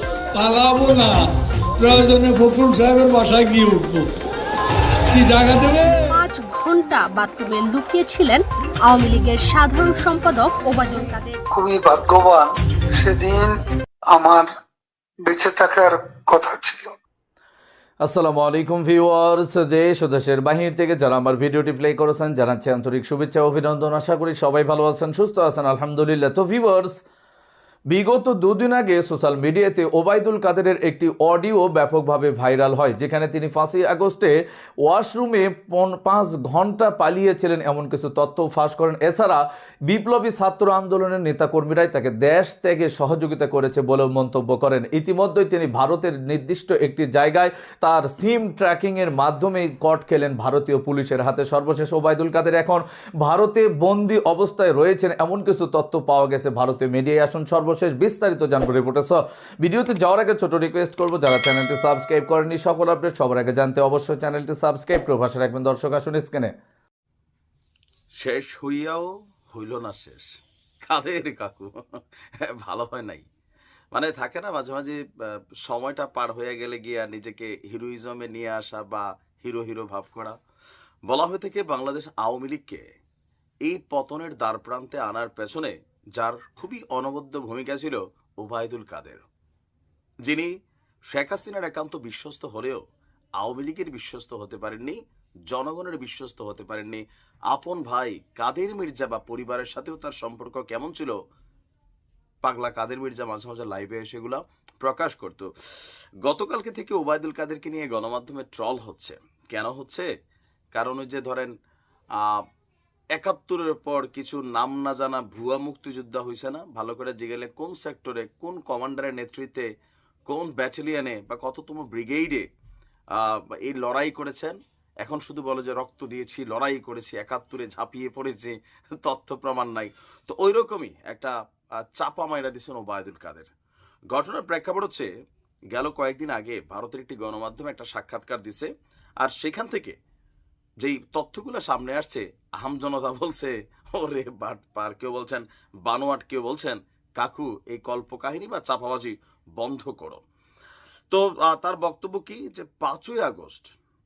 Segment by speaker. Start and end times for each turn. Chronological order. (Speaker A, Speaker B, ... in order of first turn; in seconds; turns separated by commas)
Speaker A: 0.4-1.2, Speaker A: 1.8-4.0, Speaker B: 2.1-2.8, Speaker A: 5.1-5.8, Speaker C: 6.1-11.4, Speaker B: 11.5-13.5, Speaker B: 14.1-14.4, Speaker B: 15.3-17.0, Speaker D: 18.0-27.0, Speaker D: 27.9-34.3, Speaker D: 34.8-66.5, Speaker E: 68.2-70.3, Speaker E: 70.8-71.7, Speaker E: 72.5-73.2, Speaker E: 73.9-80.3, Speaker E: 81.1-82.8, Speaker E: 83.7-89.2, Speaker E: 91.1-92.8, Speaker E: 93.4-101.1, Speaker E: 102.4-105.5, Speaker E: 106.2-110.1, Speaker E: 110.7-111.5, Speaker E: 113.2-119.7, Speaker E: 120.3-122.4, Speaker E: 123.2-133.5, Speaker E: 134.1-135.1, Speaker E: 135.7-138.7, Speaker E: 139.2-139.9, Speaker E: 140.8-150.2, Speaker E: 151.1-153.7